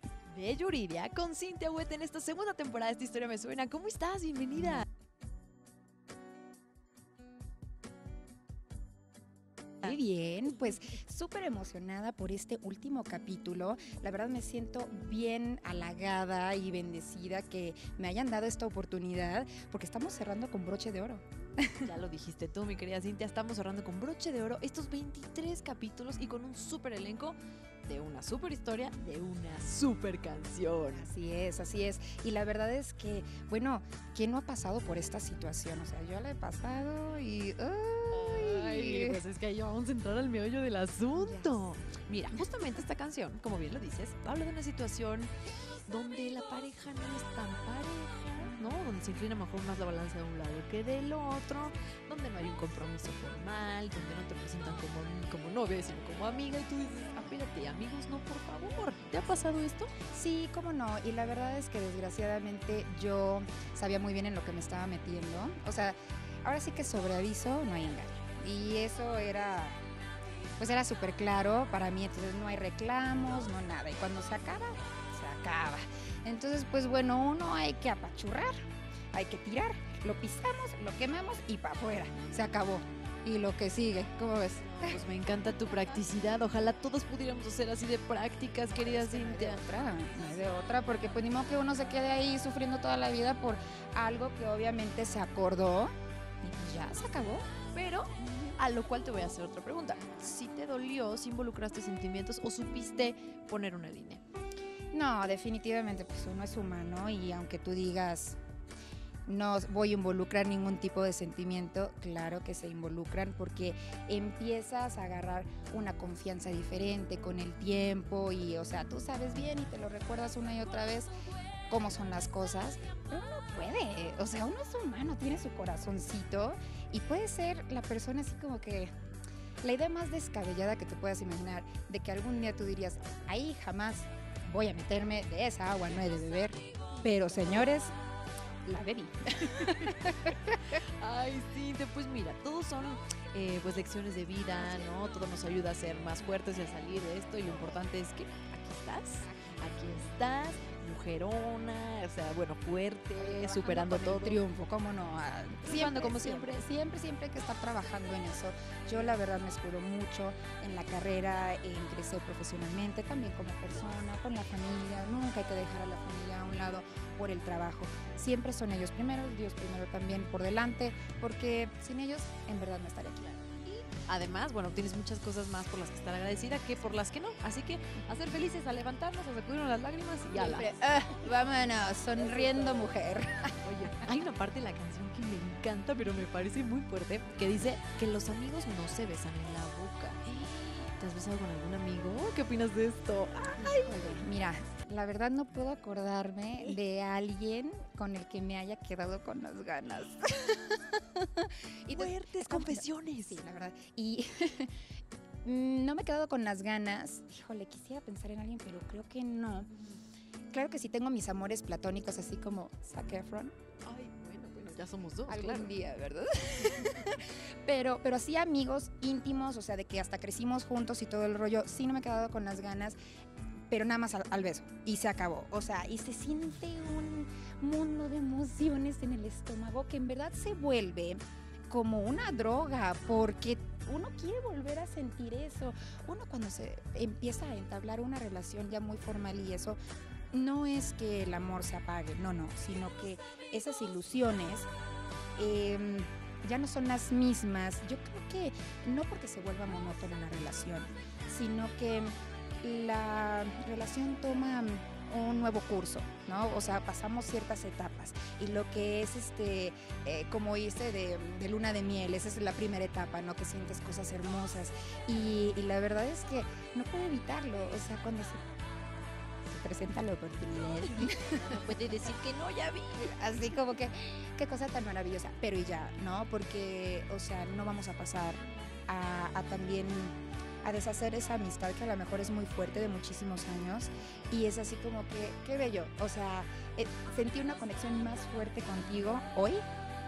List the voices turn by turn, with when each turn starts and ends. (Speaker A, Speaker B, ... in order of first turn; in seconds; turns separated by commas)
Speaker A: 0.3-4.8, Speaker B: 9.8-21.9, Speaker A: 21.8-31.1, Speaker B: 30.9-39.2, Speaker A: 38.1-45.3, Speaker B: 41.1-41.7, Speaker A: 45.9-59.9, Speaker B: 60.1-69.8, Speaker B: 70.6-78.6, Speaker B: 79.1-85.0, Speaker A: 84.6-89.6, Speaker B: 88.7-97.5, Speaker A: 97.7-104.2, Speaker B: 104.9-108.4, Speaker B: 109.3-121.1, Speaker B: 121.7-128.9, Speaker B: 129.6-137.9, Speaker B: 138.7-140.8, Speaker A: 139.6-140.1, Speaker A: 140.8-154.4, Speaker B: 144.5-144.9, Speaker B: 149.2-150.1, Speaker B: 153.2-173.2, Speaker A: 155.6-156.6, Speaker A: 173.2-180.7, Speaker B: 180.3-183.5, Speaker A: 182.3-182.8, Speaker A: 183.6-194.2, Speaker B: 193.5-204.7, Speaker A: 201.9-203.4, Speaker B: 205.4-209.7, Speaker B: 210.5-213.5, Speaker A: 213.8-215.7, Speaker B: 215.3-223.0, Speaker B: 223.7-239.8, Speaker B: 240.3-244.7, Speaker B: 245.4-268.4, Speaker B: 269.4-271.6, Speaker A: 270.8-273.1, Speaker B: 273.0-289.6